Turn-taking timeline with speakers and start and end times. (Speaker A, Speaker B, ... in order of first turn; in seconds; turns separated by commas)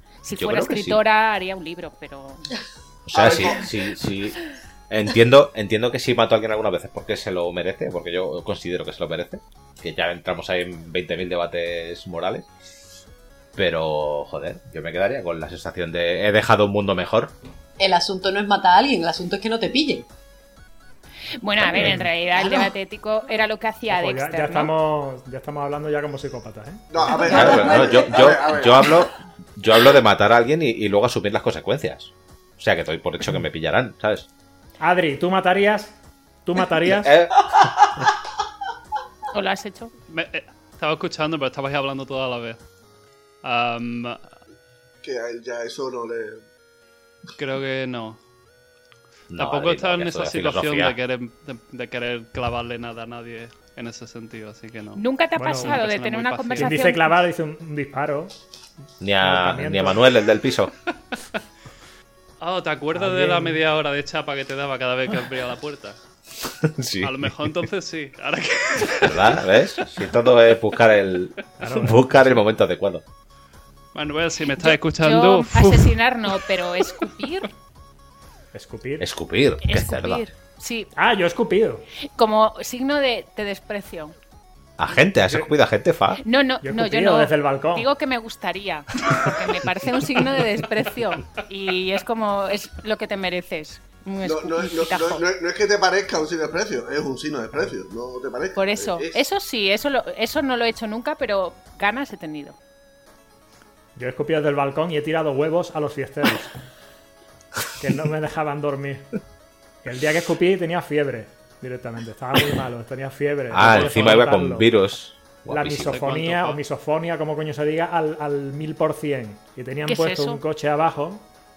Speaker A: 0.2-2.5, Speaker B: 0.4-1.0, Speaker B: 3.1-4.4, Speaker C: 3.1-3.7, Speaker B: 4.9-12.5, Speaker B: 13.6-17.3, Speaker D: 17.8-20.1, Speaker A: 21.4-24.7, Speaker E: 21.8-22.1, Speaker E: 23.9-27.1, Speaker C: 26.9-28.9, Speaker D: 27.1-28.1, Speaker B: 27.3-34.3, Speaker E: 34.8-35.9, Speaker E: 36.5-37.1, Speaker B: 37.0-37.4, Speaker A: 39.3-39.9, Speaker F: 40.1-42.6, Speaker F: 43.4-44.3, Speaker C: 45.0-46.4, Speaker F: 47.4-48.2, Speaker B: 49.3-51.0, Speaker F: 49.4-55.0, Speaker A: 55.0-57.1, Speaker E: 55.4-55.8, Speaker F: 55.6-56.9, Speaker E: 56.5-58.3, Speaker B: 59.0-60.7, Speaker E: 59.2-60.1, Speaker F: 62.4-66.0, Speaker E: 62.9-63.6, Speaker B: 66.6-67.3, Speaker F: 67.0-69.4, Speaker B: 69.0-73.0, Speaker E: 71.6-72.5, Speaker F: 73.9-77.1, Speaker A: 74.6-77.5, Speaker E: 78.5-79.1, Speaker B: 79.0-80.2, Speaker A: 79.6-80.9, Speaker E: 81.0-81.8, Speaker A: 82.2-84.2, Speaker B: 84.8-86.2, Speaker E: 85.2-85.5, Speaker A: 86.2-95.2, Speaker E: 86.6-87.9, Speaker C: 94.2-99.2, Speaker A: 98.6-102.6, Speaker E: 104.0-106.5, Speaker E: 107.8-109.1, Speaker E: 109.8-114.8, Speaker B: 113.5-116.0, Speaker E: 115.5-121.2, Speaker F: 115.9-116.6, Speaker A: 119.9-120.4